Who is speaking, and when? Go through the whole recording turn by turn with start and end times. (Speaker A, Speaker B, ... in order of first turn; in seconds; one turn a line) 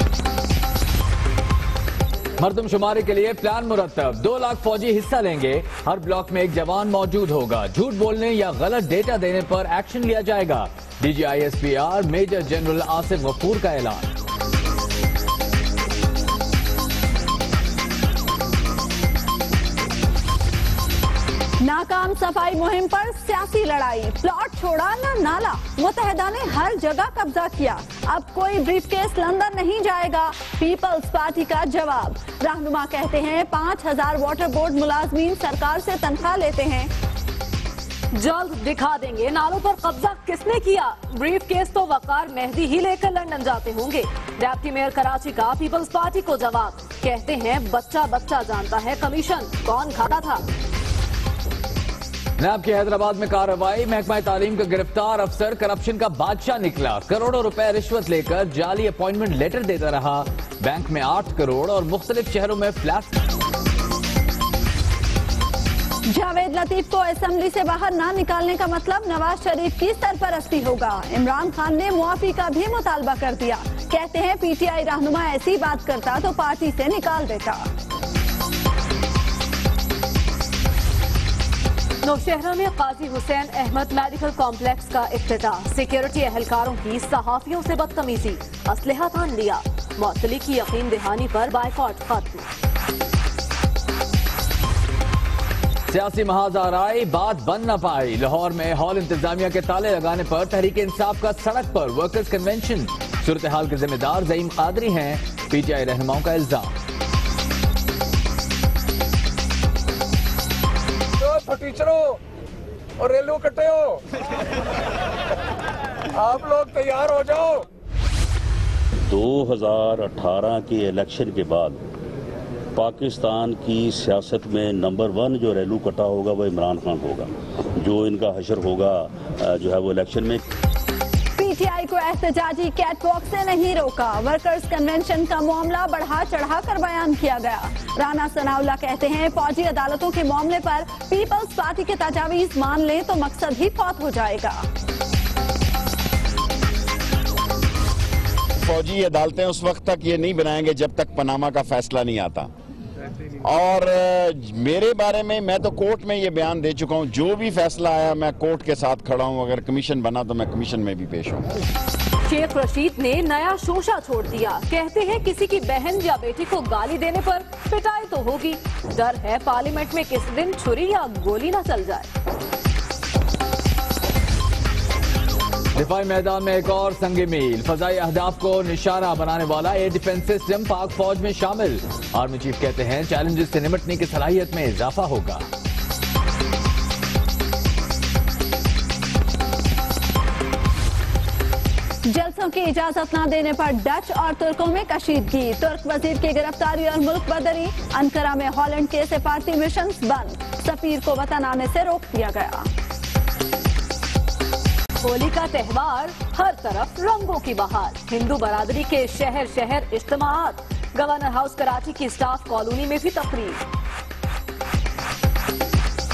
Speaker A: 2.4-14.1
Speaker B: 21.6-36.9
Speaker C: 38.1-50.4
Speaker A: 52.4-63.1
Speaker B: 66.1-77.7
Speaker C: 82.0-92.5
Speaker A: 95.9-106.8
Speaker D: 111.2-112.2
Speaker D: 113.0-114.0
Speaker D: 116.1-117.6
Speaker E: 119.1-121.8
Speaker E: 122.7-130.4
Speaker B: 131.4-144.6
Speaker F: 148.6-152.5
Speaker F: 153.4-161.4
Speaker C: 162.2-172.1
Speaker A: 175.8-185.4
Speaker B: 192.1-202.7
Speaker C: 205.0-213.6